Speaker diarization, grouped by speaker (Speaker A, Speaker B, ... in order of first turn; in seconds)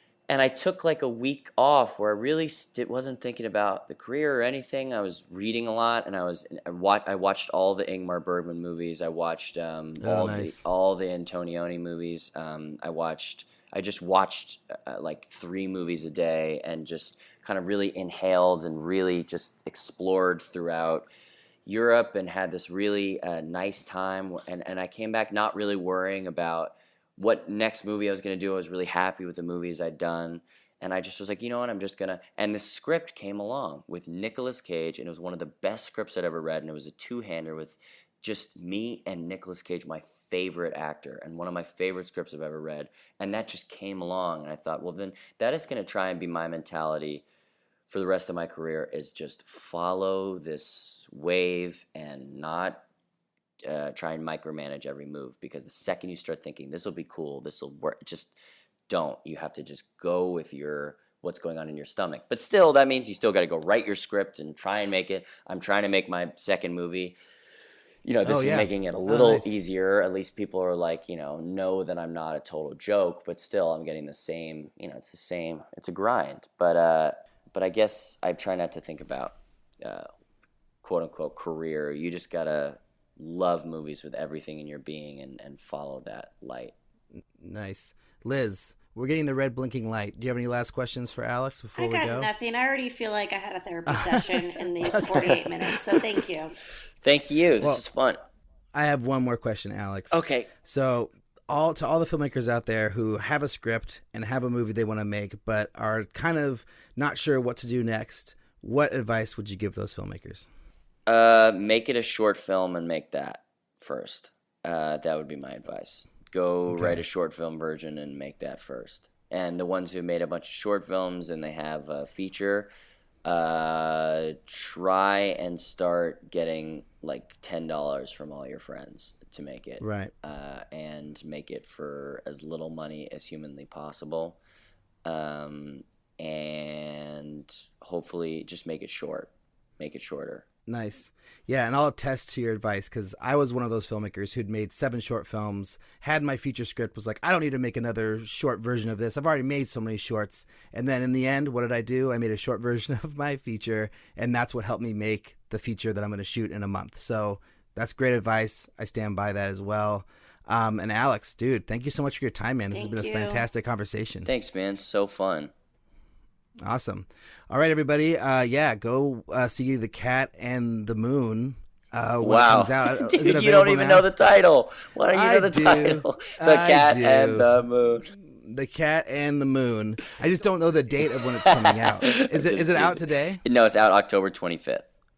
Speaker A: 0.3-21.1, 21.7-47.2, 47.9-52.8, 53.6-58.4, 58.9-67.2, 68.0-80.1, 80.8-86.7, 94.9-95.4, 97.0-98.2, 100.1-100.5, 111.1-122.7, 123.2-134.4, 135.1-140.4, 164.3-165.5, 172.2-178.1, 181.4-184.9
Speaker B: 10.0-10.6, 68.2-69.6, 87.4-92.3, 93.9-95.4, 98.7-110.5, 116.7-117.0, 129.8-130.1, 140.7-164.3, 166.6-174.1, 175.1-177.5, 178.1-183.4
Speaker C: 91.8-96.5, 162.7-163.4